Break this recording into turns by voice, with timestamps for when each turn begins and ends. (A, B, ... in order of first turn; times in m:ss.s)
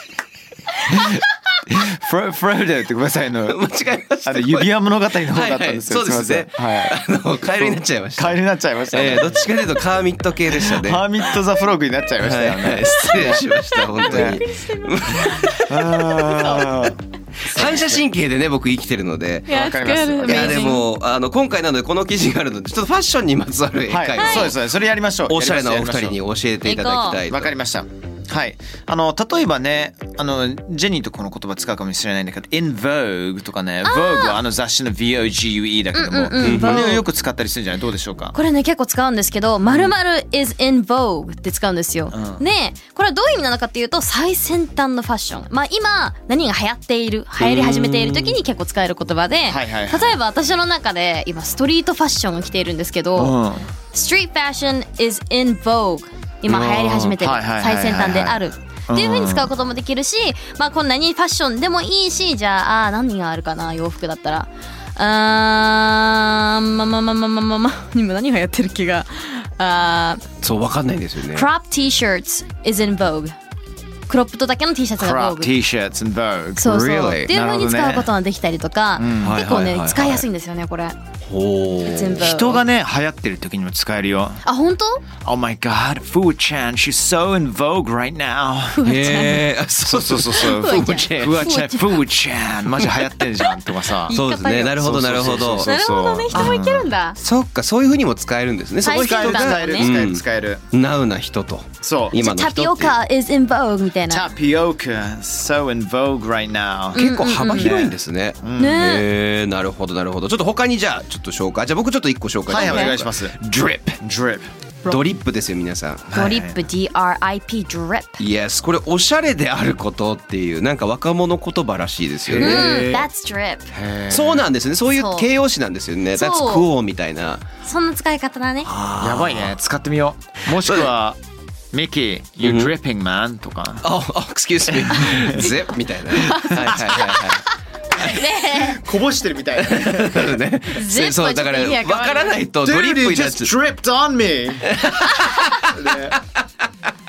0:00.9-0:03.6 A
0:03.5-0:04.7 B
0:04.2-0:09.4 A
0:05.2-0:11.1 B
0:10.7-0:14.4 A
0:12.2-0:16.9 B
0:13.5-0:15.5 C
0:15.7-0:18.0 A
0:16.4-0:16.6 C
0:17.5-0:24.6 B
0:19.5-0:20.8 C
0:19.5-0:20.7 A
0:23.9-0:26.2 A
0:24.2-0:24.5 C
0:25.3-0:27.5 B
0:26.6-0:27.2 C
0:27.3-0:38.3 A
0:33.8-0:34.4 C
0:35.9-0:37.0 C
0:36.4-0:37.0 B
0:38.3-0:53.4 C
0:39.6-0:39.9 A
0:42.1-0:42.4 A
0:47.4-0:48.4 B
0:49.4-0:50.2 A
0:53.2-0:53.7 A
0:53.9-1:10.3 C
0:56.4-0:59.5 A
1:10.4-1:11.5 B
1:11.3-1:13.4 C
1:14.1-1:15.5 C
1:15.0-1:16.7 A
1:16.6-1:21.0 C
1:16.6-1:17.3 B
1:17.2-1:18.1 A
1:19.0-1:19.4 A
1:19.2-1:20.2 B
1:21.2-1:22.6 B
1:21.8-1:22.6 C
1:22.2-1:24.4 A
1:24.4-1:25.0 C
1:25.2-1:29.0 A
1:28.8-1:29.4 C
1:28.8-1:31.5 B
1:29.8-1:36.9 A
1:30.3-1:32.0 C
1:34.1-1:37.2 C
1:34.1-1:35.7 B
1:36.3-1:43.0 B
1:38.8-1:39.9 C
1:38.8-1:40.6 A
1:41.8-1:42.2 A
1:42.2-1:44.3 C
1:44.1-1:48.8 A
1:46.9-1:47.7 C
1:47.0-1:54.0 B
1:48.6-1:49.0 C
1:52.5-1:53.4 A
1:52.5-1:52.9 C
1:54.0-1:54.5 A
1:54.8-1:56.1 B
1:56.1-1:56.6 A
1:56.1-1:58.2 C
1:58.2-2:03.1 B
2:02.3-2:02.9 A
2:02.4-2:03.7 C
2:03.7-2:04.4 A
2:04.1-2:07.4 B
2:04.9-2:05.3 C
2:06.1-2:06.7 C
2:07.6-2:08.7 C
2:08.6-2:09.5 B
2:09.0-2:11.2 A
2:10.6-2:10.9 B
2:11.7-2:13.9 A
2:12.4-2:12.7 B
2:13.8-2:17.4 B
2:14.6-2:15.5 A
2:16.2-2:17.2 C
2:16.5-2:17.0 A
2:18.0-2:18.8 C
2:18.4-2:20.4 A
2:19.6-2:23.5 B
2:20.8-2:22.4 C
2:22.6-2:25.0 A
2:24.7-2:25.6 B
2:25.6-2:26.2 A